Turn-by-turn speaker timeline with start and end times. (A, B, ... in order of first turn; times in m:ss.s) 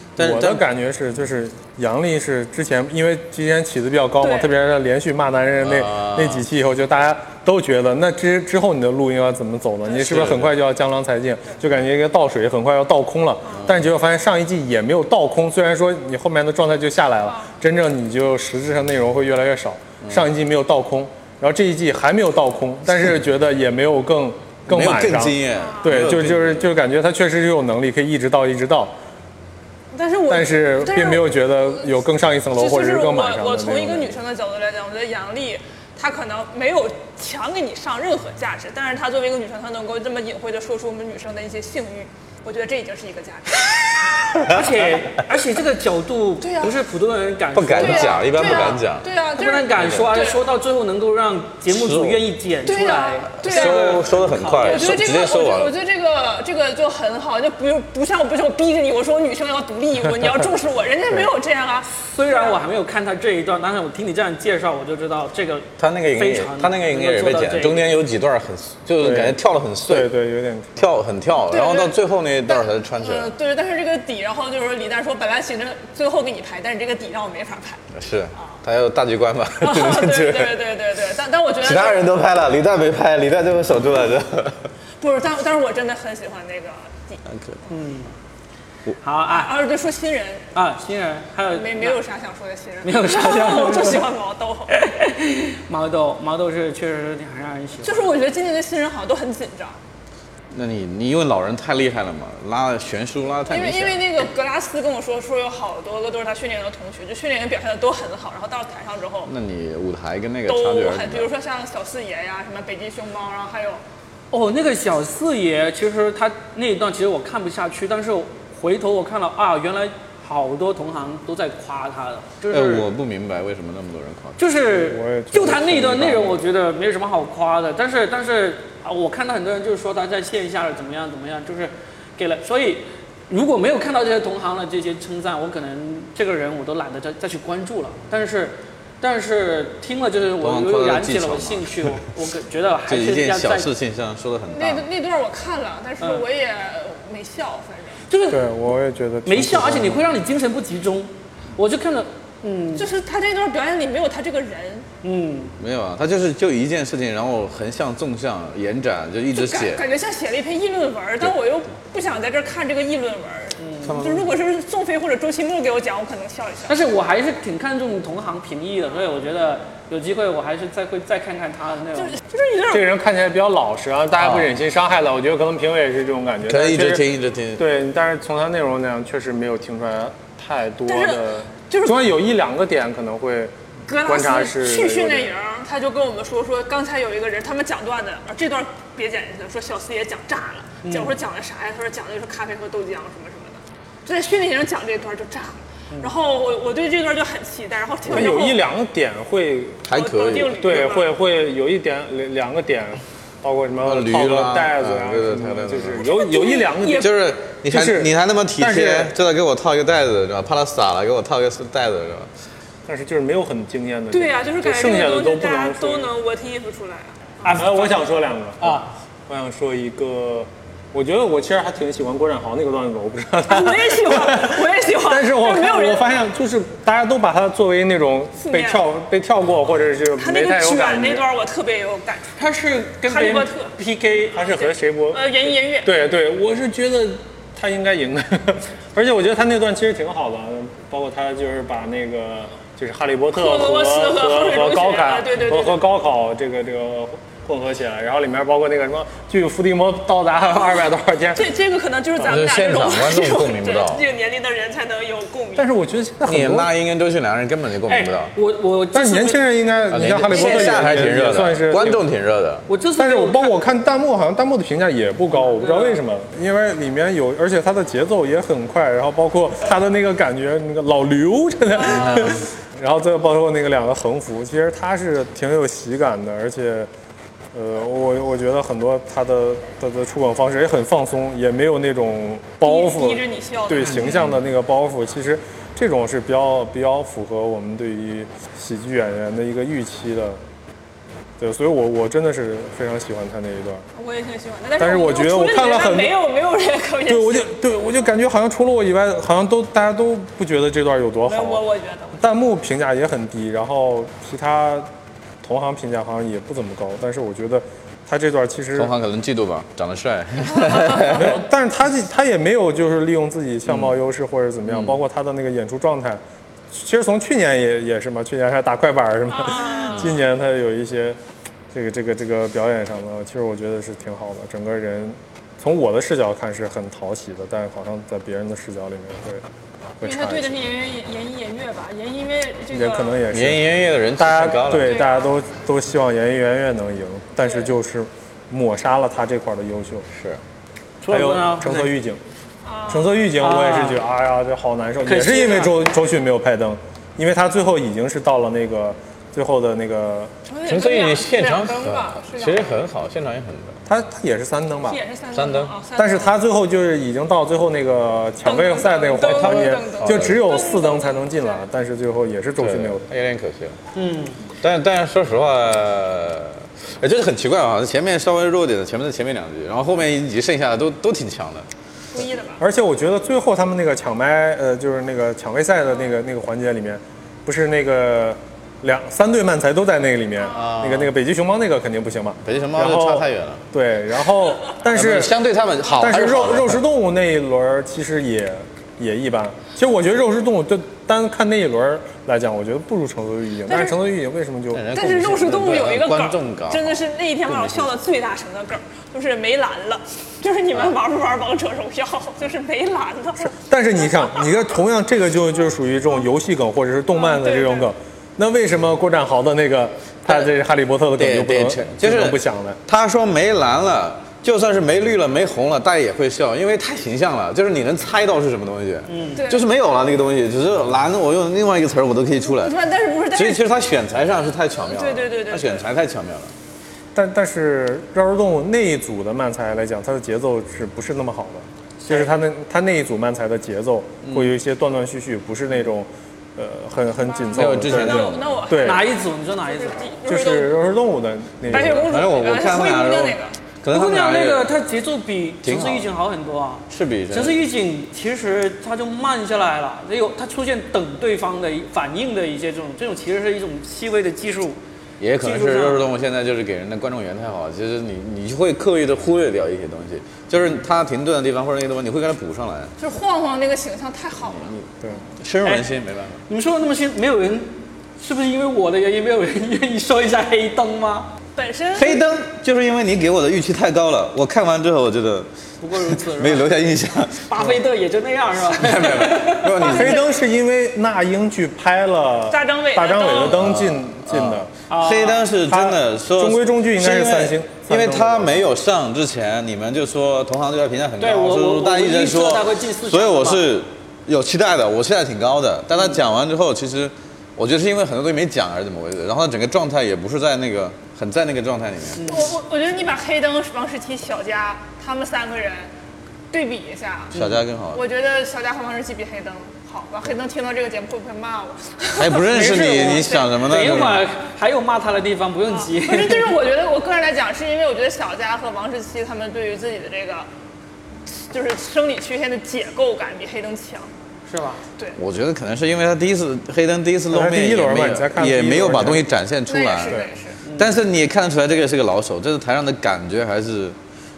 0:00.2-0:00.6 A
0:00.2-0:28.9 B
0:04.2-0:04.5 C
0:05.6-0:06.4 A
0:10.0-0:10.5 A
0:13.6-0:13.8 A
0:24.7-0:26.6 A
0:25.5-0:26.1 C
0:29.9-0:31.8 C
0:30.3-0:34.2 B
0:32.6-0:44.6 C
0:44.3-0:44.6 A
0:44.5-0:48.8 D
0:46.4-0:46.7 C
0:47.5-0:49.1 A
0:47.7-0:50.4 C
0:49.3-0:55.0 D
0:49.7-0:50.1 A
0:51.7-0:52.2 A
0:52.6-0:54.0 C
0:53.4-0:55.7 A
0:54.6-1:02.6 C
1:02.0-1:07.9 D
1:05.8-1:10.1 A
1:09.0-1:10.9 B
1:10.8-1:13.3 A
1:11.5-1:17.8 C
1:17.9-1:20.6 A
1:19.6-1:22.2 C
1:21.6-1:24.7 A
1:25.0-1:27.2 C
1:27.3-1:27.6 A
1:27.7-1:28.1 D
1:29.0-1:29.5 D
1:29.3-1:30.4 C
1:30.5-1:32.0 D
1:31.5-1:34.9 C
1:32.8-1:34.0 D
1:34.7-1:38.1 D
1:37.8-1:39.8 C
1:40.5-1:44.0 A
1:43.5-1:49.3 C
1:49.2-1:51.3 A
1:50.5-1:53.8 C
1:54.3-2:02.9 D
2:02.5-2:04.4 A
2:04.4-2:23.7 D
2:04.7-2:06.4 B
2:20.4-2:21.9 A
2:22.9-2:24.8 A
2:24.5-2:28.0 C
2:28.1-2:28.5 D
2:28.3-2:30.0 B
2:29.2-2:32.9 D
2:32.8-2:34.9 C
2:35.0-2:35.5 D
2:35.6-2:39.8 A
2:39.3-2:46.7 C
2:43.6-2:44.0 D
2:43.8-2:44.3 A
2:46.7-2:52.2 D
2:52.0-2:52.9 C
2:52.7-2:57.0 B
2:54.2-2:54.5 A
2:56.5-2:57.6 A
2:57.6-3:03.5 B
3:00.8-3:02.0 C
3:03.9-3:18.6 C
3:04.0-3:05.3 B
3:10.8-3:11.1 D
3:18.1-3:19.9 B
3:19.8-3:20.6 A
3:19.9-3:21.1 C
3:20.5-3:27.1 B
3:23.8-3:26.0 A
3:26.0-3:27.1 C
3:27.0-3:32.3 A
3:27.7-3:29.1 B
3:32.8-3:36.1 B
3:34.1-3:37.8 C
3:37.4-3:37.8 D
3:37.5-3:51.2 B
3:38.6-3:38.9 D
3:43.5-3:46.1 C
3:48.4-3:48.8 C
3:50.2-3:52.5 C
3:52.4-3:54.4 D
3:53.0-3:53.7 C
3:54.3-3:55.2 B
3:54.6-3:55.9 C
3:55.8-4:11.5 B
4:03.3-4:05.8 C
4:11.3-4:15.7 C
4:12.2-4:14.0 A
4:15.6-4:16.7 B
4:16.2-4:18.3 A
4:17.8-4:19.4 D
4:18.9-4:22.0 B
4:19.9-4:22.6 A
4:20.4-4:20.7 C
4:22.7-4:23.6 D
4:23.0-4:36.9 B
4:25.3-4:26.0 D
4:31.9-4:32.4 A
4:37.5-4:50.4 B
4:42.6-4:44.3 C
4:51.4-4:53.8 B
4:53.9-4:57.6 C
4:54.8-4:56.2 B
4:57.0-5:01.6 B
5:01.2-5:02.2 C
5:02.2-5:04.9 B
5:05.4-5:08.9 B
5:08.7-5:11.4 A
5:10.6-5:11.1 C
5:11.0-5:21.2 B
5:13.7-5:13.9 A
5:14.7-5:15.0 A
5:19.3-5:20.1 C
5:21.7-5:29.5 B
5:30.0-5:30.5 B
5:30.0-5:33.2 C
5:32.7-5:40.1 B
5:33.3-5:35.0 A
5:34.7-5:35.4 C
5:40.1-5:40.4 A
5:41.0-5:41.9 D
5:41.1-5:42.2 B
5:42.6-5:43.3 C
5:42.9-5:50.3 B
5:43.4-5:44.0 D
5:45.0-5:45.8 D
5:50.4-5:52.8 C
5:50.6-5:53.8 A
5:53.9-5:55.0 B
5:54.8-5:56.4 C
5:55.3-5:55.7 A
5:56.0-6:03.0 B
5:58.4-6:01.6 C
5:59.2-6:00.4 A
6:02.6-6:03.8 A
6:03.9-6:04.4 D
6:04.6-6:11.7 A
6:12.1-6:12.6 C
6:12.6-6:34.8 B
6:20.5-6:21.1 A
6:22.4-6:23.6 A
6:24.9-6:26.8 A
6:33.7-6:34.0 C
6:34.7-6:37.9 A
6:34.9-6:43.5 C
6:43.6-6:52.8 B
6:47.1-6:47.9 C
6:51.2-7:02.7 A
6:59.1-6:59.4 D
6:59.4-6:59.7 C
7:02.4-7:03.6 C
7:03.3-7:06.5 A
7:04.9-7:05.8 C
7:07.1-7:19.0 B
7:12.0-7:12.3 D
7:14.2-7:14.5 A
7:17.4-7:20.9 C
7:17.5-7:18.6 A
7:18.8-7:20.1 D
7:20.3-7:22.1 B
7:21.6-7:23.6 C
7:21.7-7:24.7 A
7:23.9-7:34.8 D
7:25.6-7:26.1 A
7:26.9-7:27.6 A
7:35.2-7:42.9 A
7:35.4-7:36.0 D
7:43.0-7:44.8 C
7:45.4-7:46.4 A
7:46.5-7:51.3 D
7:51.6-7:52.2 C
7:52.0-7:57.8 A
7:55.8-7:56.7 D
7:57.4-8:00.1 D
7:58.6-8:00.2 A
7:59.8-8:00.2 C
7:59.8-8:04.7 B
8:02.5-8:03.6 C
8:03.4-8:22.2 A
8:04.9-8:05.5 D
8:05.7-8:08.6 B
8:11.2-8:13.7 D
8:22.1-8:22.5 D
8:22.2-8:25.9 C
8:26.5-8:33.7 C
8:27.3-8:28.0 A
8:32.2-8:34.3 A
8:32.5-8:36.6 D
8:35.7-8:40.5 C
8:41.3-8:44.1 C
8:44.5-8:44.8 D
8:45.2-8:50.2 A
8:47.3-8:49.3 B
8:49.7-8:50.6 C
8:50.0-8:50.3 B
8:50.6-8:50.9 D
8:50.8-8:54.0 A